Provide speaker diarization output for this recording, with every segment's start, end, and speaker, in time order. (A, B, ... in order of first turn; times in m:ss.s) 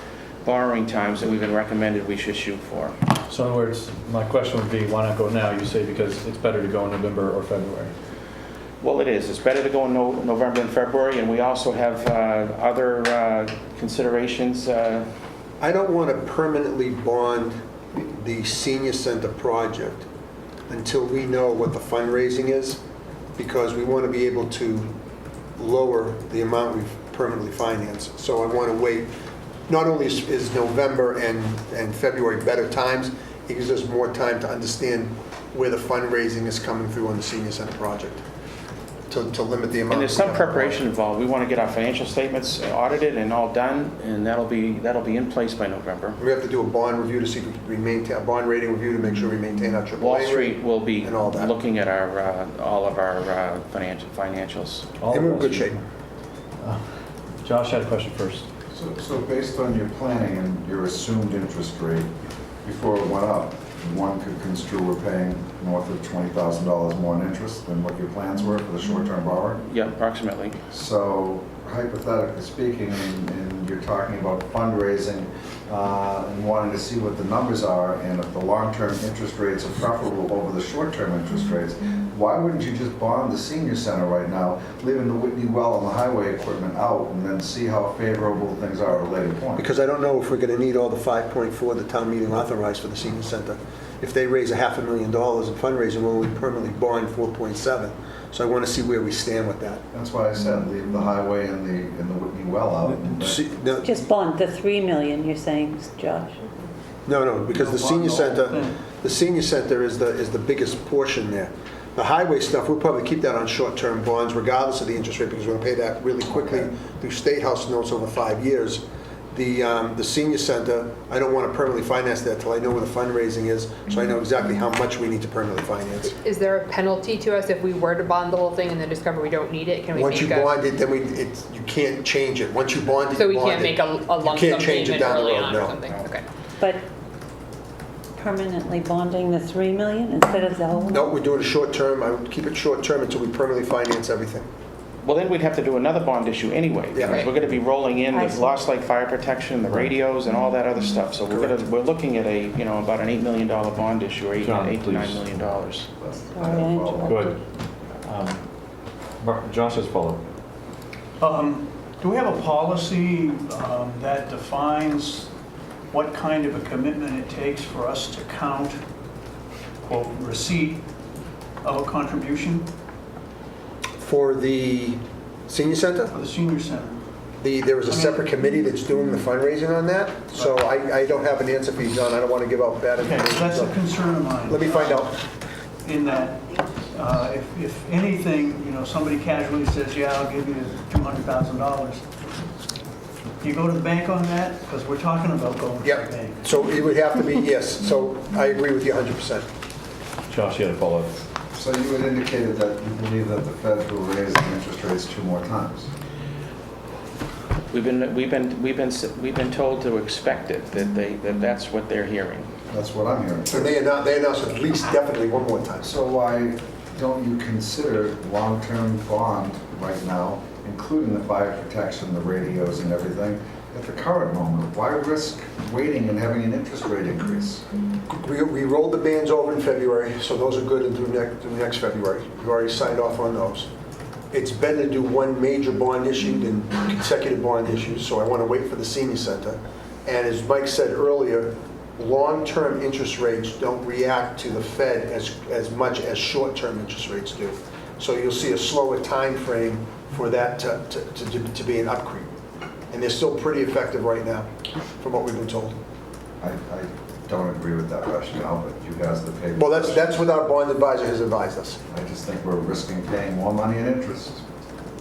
0:00.4-0:03.0 A
0:03.3-0:07.9 B
0:08.8-0:15.1 A
0:15.6-0:20.0 C
0:20.7-0:22.8 C
0:23.4-0:24.9 C
0:25.6-0:29.1 C
0:29.7-0:38.2 C
0:39.1-0:40.8 C
0:39.9-0:46.2 A
0:46.2-0:51.5 C
0:50.0-0:54.9 A
0:55.0-0:55.8 B
0:55.1-0:55.8 C
0:57.4-0:58.5 B
0:58.7-1:02.1 D
1:02.6-1:09.6 D
1:09.7-1:10.6 A
1:10.7-1:29.7 D
1:29.6-1:39.8 C
1:39.9-1:43.4 D
1:43.2-1:44.0 C
1:43.8-1:46.5 E
1:47.1-2:06.1 C
1:47.5-1:48.8 F
2:06.2-2:10.6 G
2:10.0-2:15.8 C
2:13.1-2:16.2 G
2:16.6-2:16.8 E
2:18.2-2:21.2 E
2:20.9-2:24.5 C
2:25.0-2:35.9 A
2:26.9-2:27.2 C
2:28.1-2:28.6 E
2:29.7-2:29.9 B
2:31.3-2:31.6 C
2:34.4-2:35.4 B
2:36.0-2:37.3 D
2:36.2-2:37.4 E
2:37.0-2:37.3 B
2:38.0-2:38.4 B
2:39.2-2:40.2 B
2:41.2-2:45.3 F
2:45.9-2:48.8 F
2:49.8-2:50.8 F
2:51.6-2:52.7 F
2:54.0-2:56.2 C
2:56.1-2:57.0 F
2:57.4-3:03.8 C
2:57.9-2:58.4 F
3:00.3-3:00.6 F
3:03.0-3:05.3 F
3:04.5-3:05.2 C
3:05.8-3:12.0 F
3:13.4-3:16.4 F
3:15.8-3:19.5 C
3:20.3-3:21.2 B
3:21.5-3:25.9 D
3:27.7-3:32.5 A
3:32.7-3:33.8 D
3:33.5-3:35.9 C
3:35.8-3:47.6 D
3:48.1-3:53.7 C
3:54.3-4:12.3 C
4:12.9-4:15.8 C
4:16.4-4:20.2 D
4:19.6-4:21.8 C
4:21.9-4:24.4 D